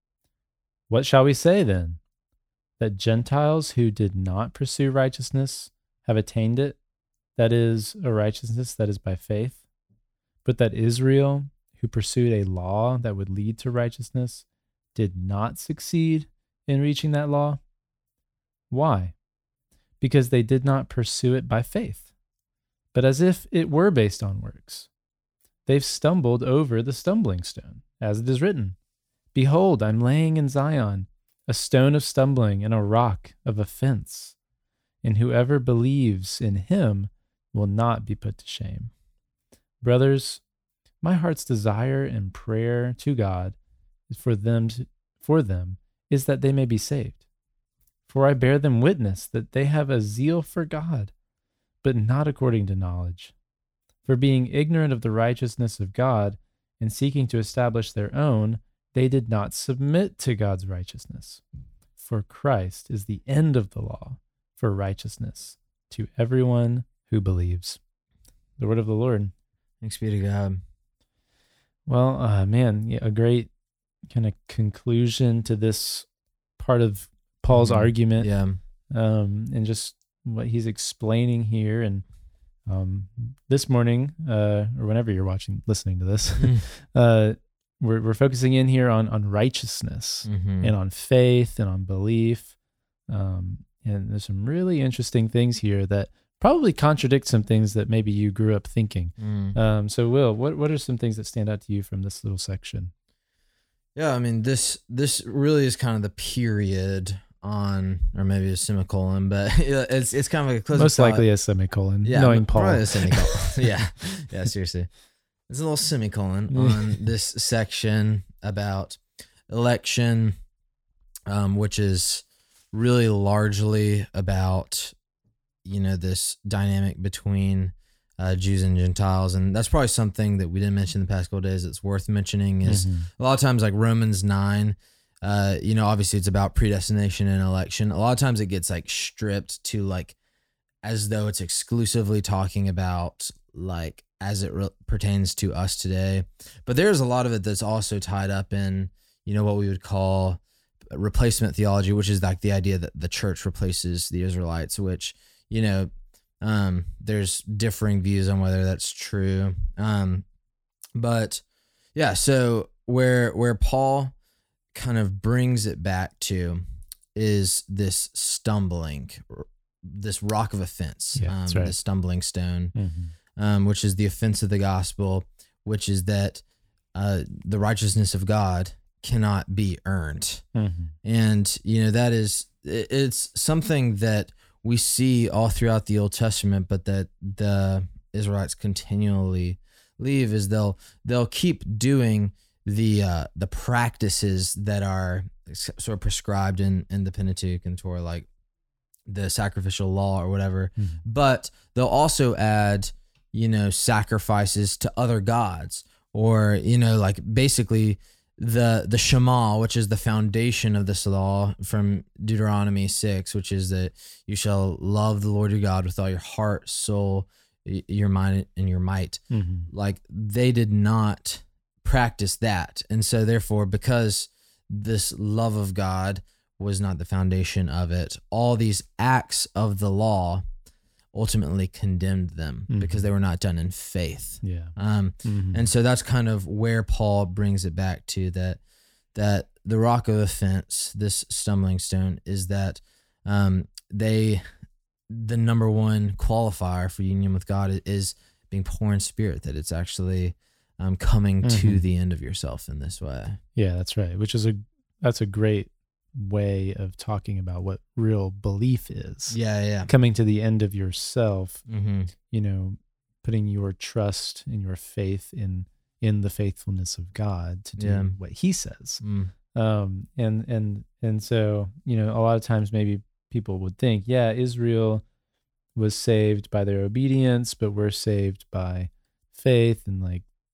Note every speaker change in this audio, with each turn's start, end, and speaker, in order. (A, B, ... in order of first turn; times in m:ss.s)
0:00.9-0:02.0 A
0:02.8-0:06.8 A
0:07.4-0:09.6 A
0:10.4-0:17.6 A
0:18.7-0:19.1 A
0:20.0-0:22.1 A
0:22.9-0:24.9 A
0:25.6-0:28.8 A
0:29.3-0:34.4 A
0:35.0-0:38.9 A
0:39.8-0:40.4 A
0:41.0-0:43.6 A
0:44.1-0:47.2 A
0:48.1-0:51.1 A
0:51.8-0:53.3 A
0:54.0-1:01.4 A
1:02.0-1:07.8 A
1:08.6-1:09.3 A
1:09.8-1:10.6 B
1:11.8-1:13.5 A
1:14.1-1:16.1 A
1:16.6-1:18.3 A
1:17.5-1:18.6 B
1:18.9-1:22.0 A
1:22.7-1:32.6 A
1:26.4-1:26.6 B
1:30.2-1:30.7 B
1:33.1-1:42.9 A
1:39.2-1:39.6 B
1:43.9-1:51.3 B
1:50.7-1:53.5 A
1:52.0-1:54.9 B
1:55.5-2:00.3 B
1:56.5-1:57.0 A
2:01.3-2:04.9 B
2:05.6-2:20.2 B
2:12.6-2:13.1 A
2:20.8-2:30.4 B
2:30.9-2:35.9 B
2:36.4-2:40.2 B
2:41.0-2:41.4 B
2:41.9-2:44.1 B
2:44.7-2:46.6 B
2:47.1-2:52.7 B
2:51.2-2:51.7 A
2:52.7-2:53.1 A
2:53.4-2:56.4 B
2:56.9-3:00.4 B
3:00.5-3:00.9 A
3:01.0-3:18.3 B
3:19.1-3:50.4 B
3:20.8-3:21.0 A
3:39.3-3:39.7 A
3:51.1-3:58.6 B
3:52.7-3:53.1 A
3:54.4-3:55.7 A
3:59.1-4:04.4 B
4:05.1-4:13.4 B
4:11.4-4:11.8 A
4:13.5-4:21.6 A
4:19.3-4:19.9 B
4:21.7-4:22.1 B
4:22.3-4:29.0 A
4:27.8-4:28.1 B
4:29.0-4:29.3 B
4:29.5-4:35.0 A
4:35.7-4:40.2 A